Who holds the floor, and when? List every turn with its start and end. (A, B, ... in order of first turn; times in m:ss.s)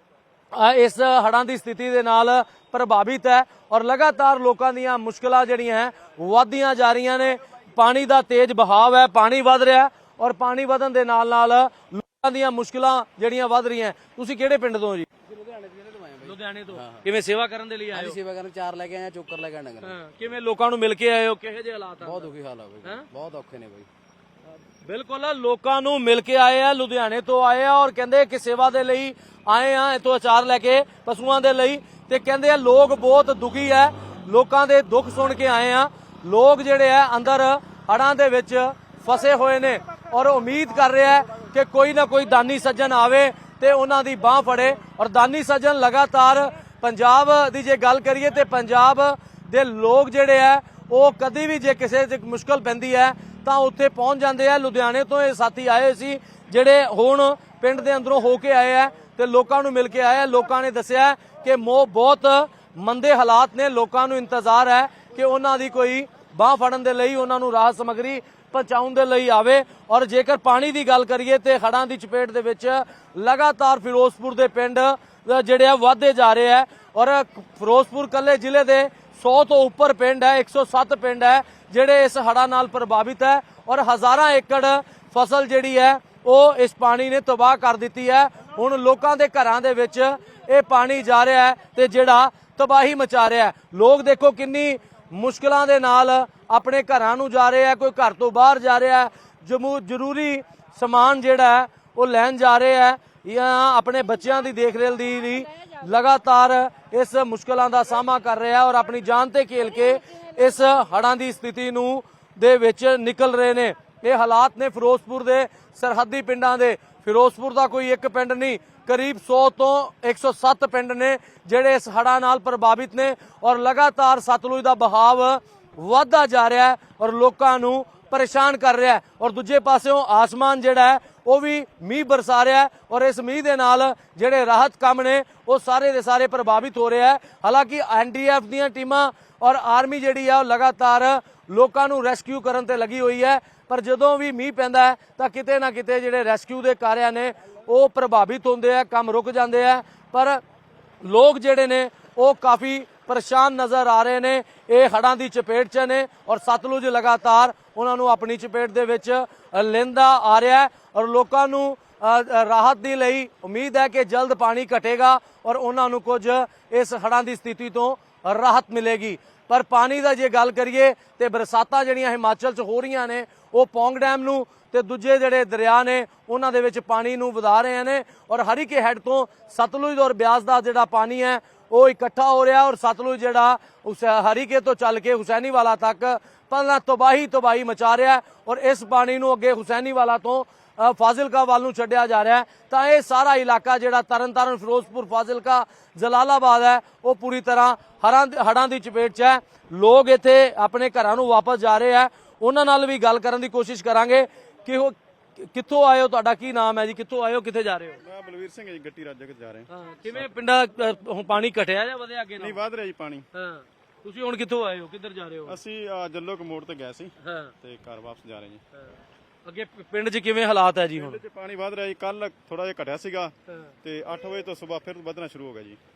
0:00.5-0:15.1 A
0:15.3-0:17.1 B
0:16.2-0:18.2 A
0:17.9-0:20.0 B
0:19.8-0:22.3 A
0:22.0-0:23.9 B
0:24.8-2:30.4 A
2:31.0-3:28.0 A
3:28.0-3:29.7 C
3:29.7-3:32.6 A
3:32.4-3:33.3 C
3:33.3-3:35.6 A
3:35.5-3:38.6 C
3:37.2-3:37.5 A
3:39.5-3:41.2 A
3:41.0-3:43.3 C
3:43.8-3:45.8 C